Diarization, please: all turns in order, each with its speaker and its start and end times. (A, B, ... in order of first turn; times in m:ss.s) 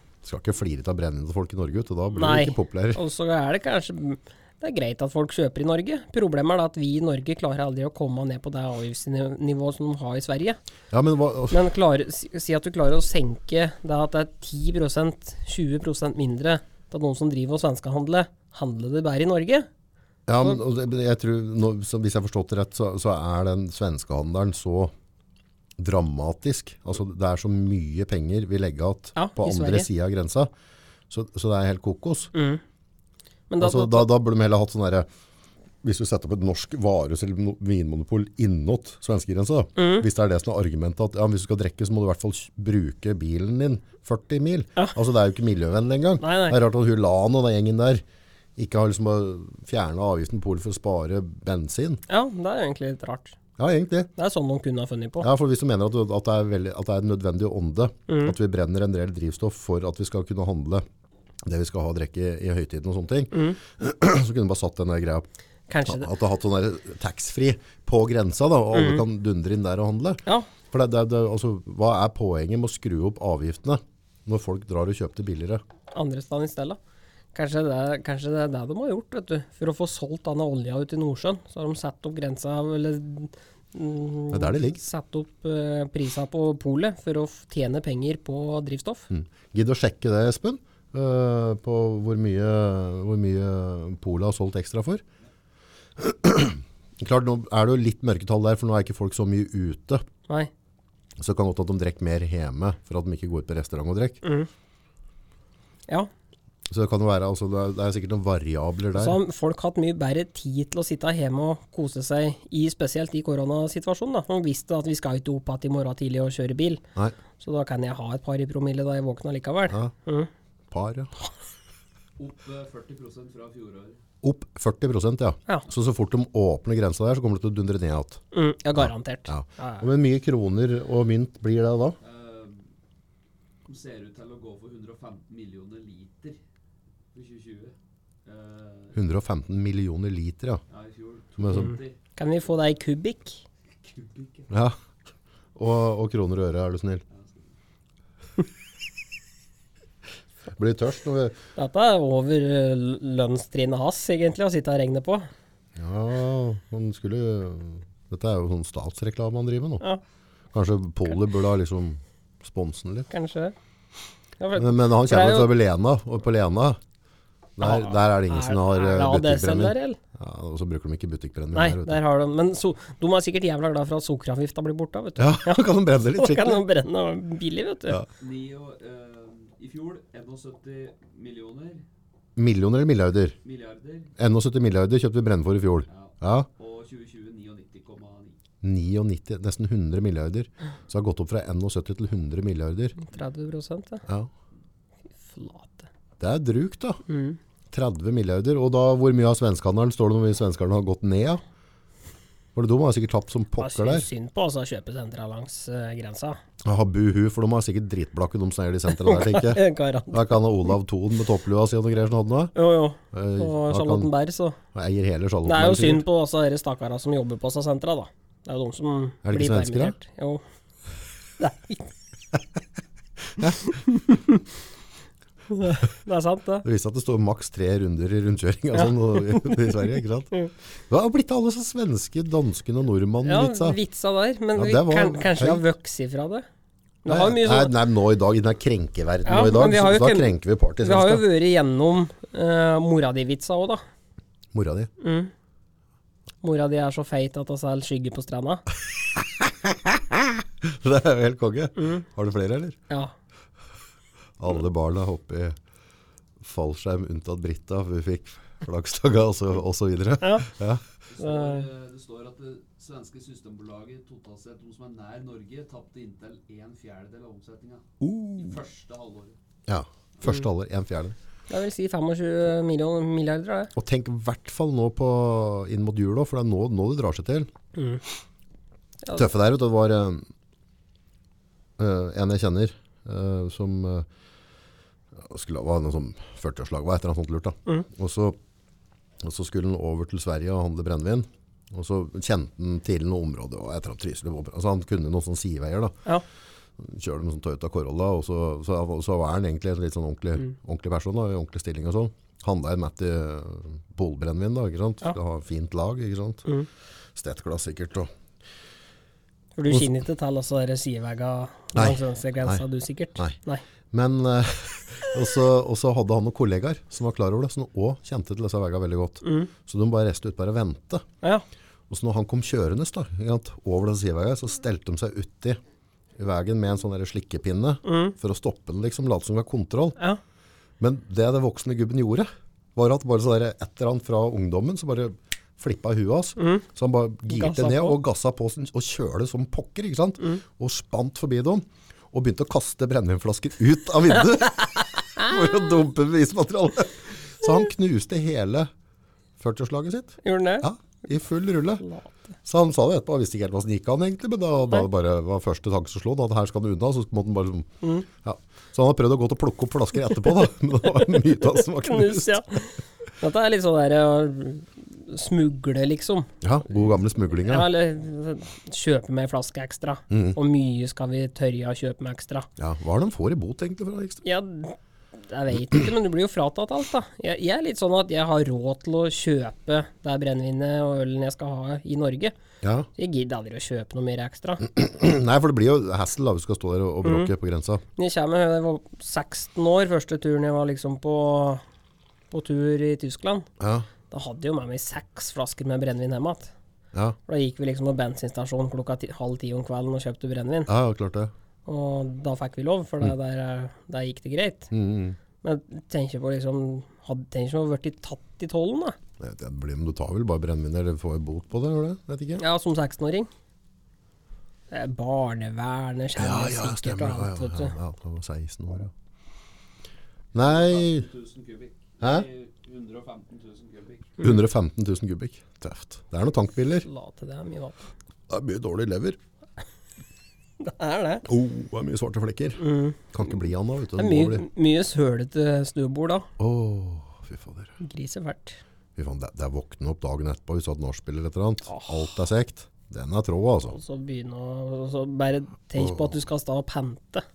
0:00.2-0:03.0 A
0:02.1-0:10.6 B
0:10.9-0:11.6 A
0:11.5-0:19.7 B
0:20.3-0:24.9 A
0:25.8-0:30.5 A
0:29.2-0:29.9 B
0:31.1-0:32.3 A
0:32.3-0:32.6 B
0:33.5-0:34.1 B
0:33.6-0:35.1 A
0:35.8-0:48.0 A
0:39.8-0:40.0 B
0:46.2-0:46.6 B
0:48.6-0:52.0 A
0:52.1-0:53.4 B
0:53.6-0:54.1 A
0:54.2-0:55.3 B
0:55.2-1:00.8 A
0:58.1-0:58.4 B
1:01.4-1:05.3 A
1:03.3-1:03.6 B
1:05.7-1:06.1 B
1:05.8-1:15.6 A
1:08.7-1:09.0 B
1:15.9-1:16.8 B
1:17.3-1:29.1 B
1:24.3-1:24.8 A
1:29.1-1:35.0 A
1:36.0-1:40.0 A
1:41.2-1:44.2 A
1:44.2-1:44.5 B
1:46.7-1:49.2 A
1:48.9-1:56.8 B
1:57.4-2:00.3 B
2:00.7-2:01.1 A
2:02.2-2:04.0 C
2:04.2-2:08.2 A
2:08.3-2:09.9 B
2:08.8-2:12.0 A
2:12.0-2:12.7 C
2:13.6-2:16.4 C
2:17.1-2:19.0 C
2:18.9-2:20.6 A
2:20.7-2:22.0 C
2:21.4-2:21.7 A
2:21.5-2:23.4 B
2:23.8-2:24.5 C
2:24.5-2:24.8 A
2:25.6-2:27.0 A
2:27.1-2:27.5 C
2:30.5-2:31.4 A
2:31.6-2:35.3 B
2:35.8-2:39.8 A
2:40.5-2:43.1 A
2:43.1-2:43.5 B
2:44.4-2:45.5 B
2:44.6-2:46.8 A
2:47.6-2:52.0 A
2:47.6-2:50.0 B
2:51.5-2:58.0 B
2:55.2-2:56.6 A
2:58.2-3:01.8 C
3:02.4-3:03.4 A
3:03.4-3:04.1 C
3:04.2-3:06.5 A
3:05.9-3:08.4 C
3:08.6-3:13.0 A
3:13.0-3:14.0 B
3:15.2-3:15.9 B
3:16.2-3:17.0 A
3:17.1-3:17.4 B
3:17.7-3:21.4 A
3:22.5-3:24.1 A
3:23.6-3:26.4 B
3:26.6-3:32.5 A
3:28.9-3:30.7 B
3:32.5-3:34.6 B
3:33.1-3:34.1 A
3:34.7-3:36.0 A
3:35.4-3:40.4 B
3:39.2-3:40.0 A
3:41.4-3:41.9 B
3:43.3-3:43.8 A
3:43.6-3:44.4 B
3:45.5-3:46.6 B
3:46.6-3:53.8 A
3:48.7-3:50.5 B
3:53.2-3:56.4 B
3:54.5-3:55.6 A
3:57.0-3:57.7 B
3:57.1-4:01.2 A
3:59.2-4:03.8 B
4:04.5-4:04.9 A
4:05.0-4:05.3 B
4:06.4-4:08.6 B
4:09.1-4:12.8 A
4:11.8-4:12.0 B
4:14.4-4:15.6 A
4:16.4-4:20.8 A
4:20.2-4:20.5 B
4:21.1-4:29.4 C
4:21.2-4:21.6 B
4:28.0-4:28.6 A
4:29.7-4:31.2 A
4:31.5-4:33.7 B
4:33.7-4:37.5 A
4:37.7-4:38.0 B
4:39.1-4:40.3 A
4:41.8-4:44.1 A
4:45.2-4:48.4 A
4:49.2-4:56.0 A
4:56.8-5:06.5 A
5:07.1-5:08.1 A
5:09.6-5:13.6 B
5:11.7-5:12.6 A
5:13.9-5:21.0 A
5:19.2-5:19.5 B
5:21.9-5:25.6 A
5:26.2-5:30.0 A
5:27.8-5:28.1 B
5:30.8-5:48.7 A
5:36.4-5:36.6 B
5:37.3-5:38.0 B
5:49.4-5:51.8 A
5:50.2-5:50.6 B
5:51.8-5:52.1 B
5:52.4-5:57.7 A
5:58.2-6:02.6 A
6:00.9-6:06.9 B
6:06.4-6:07.7 A
6:07.4-6:12.5 B
6:10.1-6:10.4 A
6:12.6-6:14.2 A
6:14.2-6:22.3 B
6:22.6-6:22.9 A
6:23.0-6:24.6 B
6:24.6-6:27.8 A
6:27.0-6:27.3 B
6:28.0-6:31.6 B
6:32.3-6:33.5 B
6:33.6-6:33.9 A
6:34.1-6:36.5 B
6:37.3-6:40.7 B
6:40.7-6:41.3 A
6:41.6-6:44.7 B
6:44.7-6:45.2 A
6:45.4-6:49.0 B
6:49.2-6:52.4 A
6:52.4-6:53.3 B
6:54.7-6:57.7 B
6:56.2-6:58.9 A
7:00.3-7:01.1 A
7:00.4-7:04.2 C
7:04.2-7:06.9 A
7:06.8-7:07.9 B
7:08.3-7:09.2 A
7:10.6-7:11.3 B
7:11.2-7:14.4 A
7:12.6-7:13.0 B
7:14.0-7:16.3 B
7:16.4-7:17.8 A
7:17.8-7:18.6 B
7:19.0-7:23.8 A
7:21.7-7:22.1 B
7:23.7-7:27.2 B
7:25.8-7:26.1 A